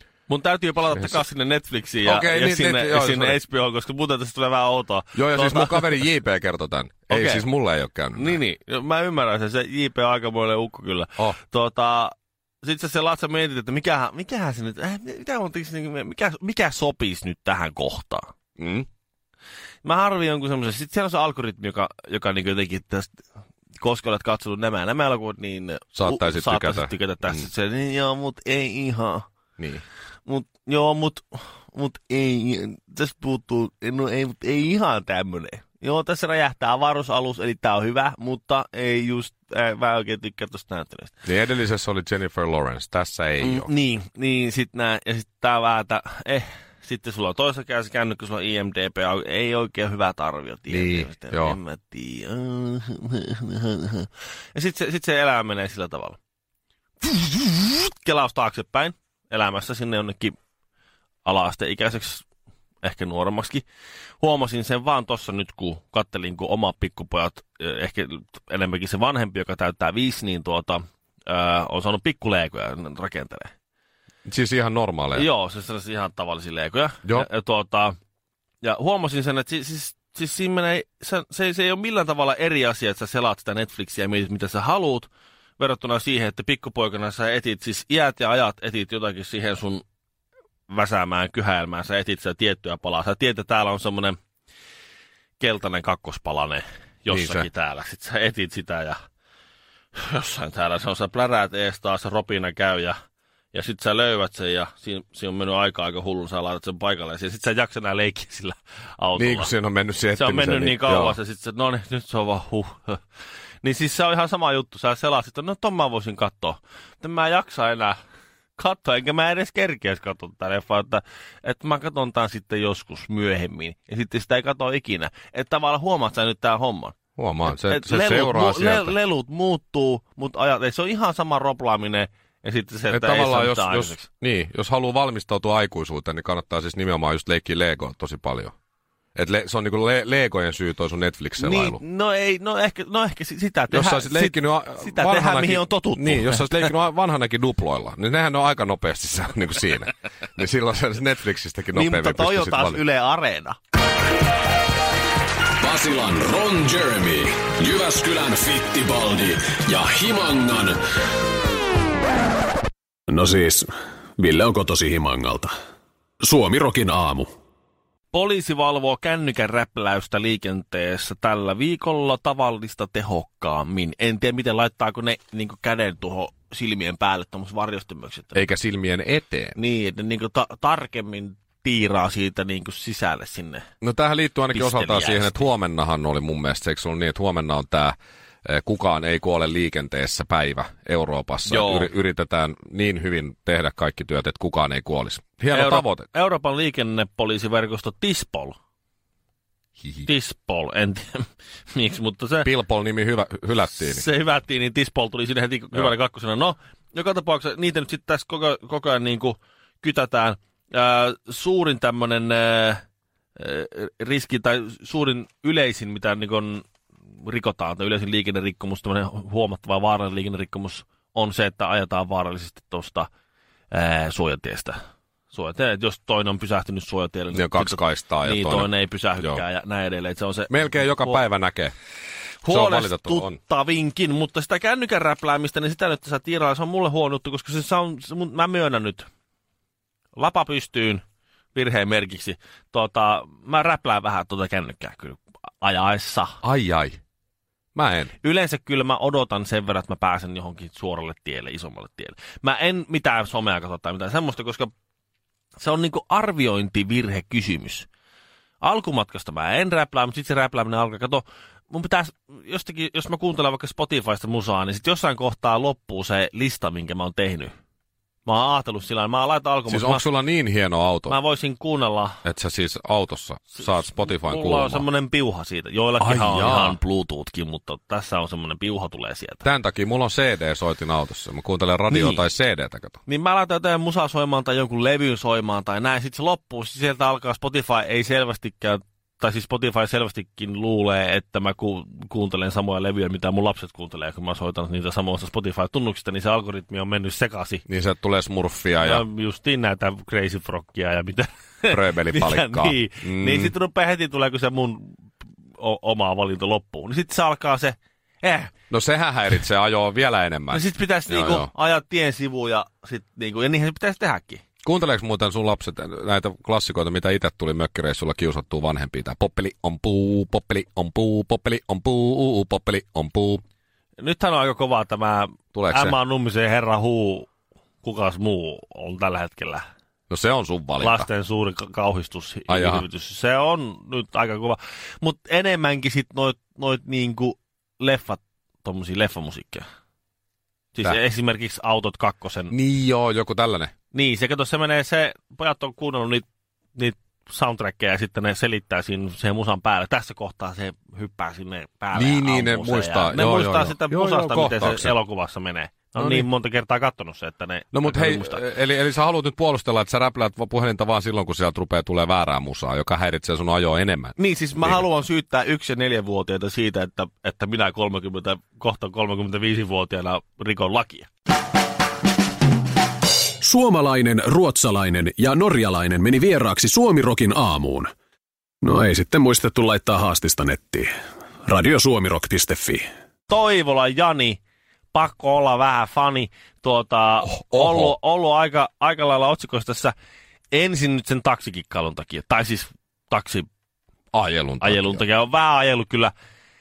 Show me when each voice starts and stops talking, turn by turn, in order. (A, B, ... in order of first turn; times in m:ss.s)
0:00.3-0:06.1 A
0:02.0-0:03.4 B
0:05.2-0:08.4 B
0:07.1-0:07.4 A
0:08.2-0:18.3 A
0:18.6-0:18.9 B
0:19.8-0:23.2 A
0:23.8-0:29.3 A
0:26.0-0:27.4 B
0:29.6-0:29.8 B
0:30.3-0:41.2 A
0:41.3-0:43.7 B
0:43.4-0:56.2 A
0:50.7-0:51.6 B
0:57.0-1:00.4 A
1:01.2-1:02.2 A
1:02.8-1:03.6 A
1:04.2-1:13.5 A
1:14.2-1:15.3 B
1:15.2-1:18.0 A
1:18.6-1:29.8 A
1:30.7-1:34.2 A
1:35.4-1:39.0 A
1:37.1-1:37.5 B
1:40.0-1:43.0 A
1:43.5-1:49.5 A
1:49.2-1:51.2 B
1:50.2-1:53.0 A
1:53.6-1:58.0 A
1:58.6-2:14.1 A
2:07.2-2:09.0 B
2:12.9-2:18.5 B
2:19.2-2:21.8 B
2:21.4-2:26.7 A
2:23.7-2:32.8 B
2:31.7-2:33.6 A
2:35.6-2:40.8 C
2:43.1-2:45.5 C
2:46.2-2:47.3 C
2:48.1-2:58.4 A
2:58.4-2:59.6 B
2:59.6-3:03.6 A
3:03.8-3:16.1 B
3:04.5-3:05.5 A
3:11.5-3:11.9 A
3:15.5-3:18.6 A
3:20.0-3:22.5 A
3:22.4-3:24.0 B
3:23.8-3:32.8 A
3:33.4-3:36.7 A
3:37.2-3:43.1 A
3:43.7-3:44.8 A
3:45.3-3:51.2 A
3:47.3-3:49.4 B
3:50.5-3:51.7 B
3:52.4-3:59.1 A
3:52.5-3:53.4 B
4:00.2-4:01.0 A
4:01.6-4:06.4 A
4:06.4-4:07.0 B
4:07.8-4:08.1 B
4:08.2-4:14.7 A
4:15.6-4:17.9 A
4:18.6-4:27.5 A
4:28.3-4:30.0 A
4:29.7-4:31.2 B
4:31.1-4:32.2 A
4:32.2-4:34.8 B
4:33.5-4:39.4 A
4:36.0-4:36.8 B
4:39.4-4:43.0 B
4:41.9-4:42.2 A
4:43.1-4:57.6 A
4:57.7-4:59.0 B
4:58.8-5:05.0 A
5:01.7-5:03.5 B
5:05.6-5:08.5 A
5:08.7-5:11.5 B
5:10.5-5:14.4 A
5:14.6-5:23.4 B
5:24.0-5:27.3 A
5:25.6-5:26.0 B
5:27.8-5:29.6 A
5:30.1-5:31.1 B
5:30.8-5:39.6 A
5:32.5-5:32.8 B
5:40.8-5:42.5 A
5:42.5-5:43.7 B
5:43.9-5:58.4 A
5:51.9-5:55.0 B
5:56.0-5:56.3 B
5:57.7-6:04.8 B
6:04.2-6:11.1 A
6:13.4-6:17.9 C
6:18.6-6:20.9 C
6:21.5-6:22.9 C
6:23.3-6:24.4 A
6:24.9-6:30.0 A
6:27.3-6:28.0 B
6:30.5-6:33.5 A
6:34.1-6:35.0 B
6:34.6-6:36.1 A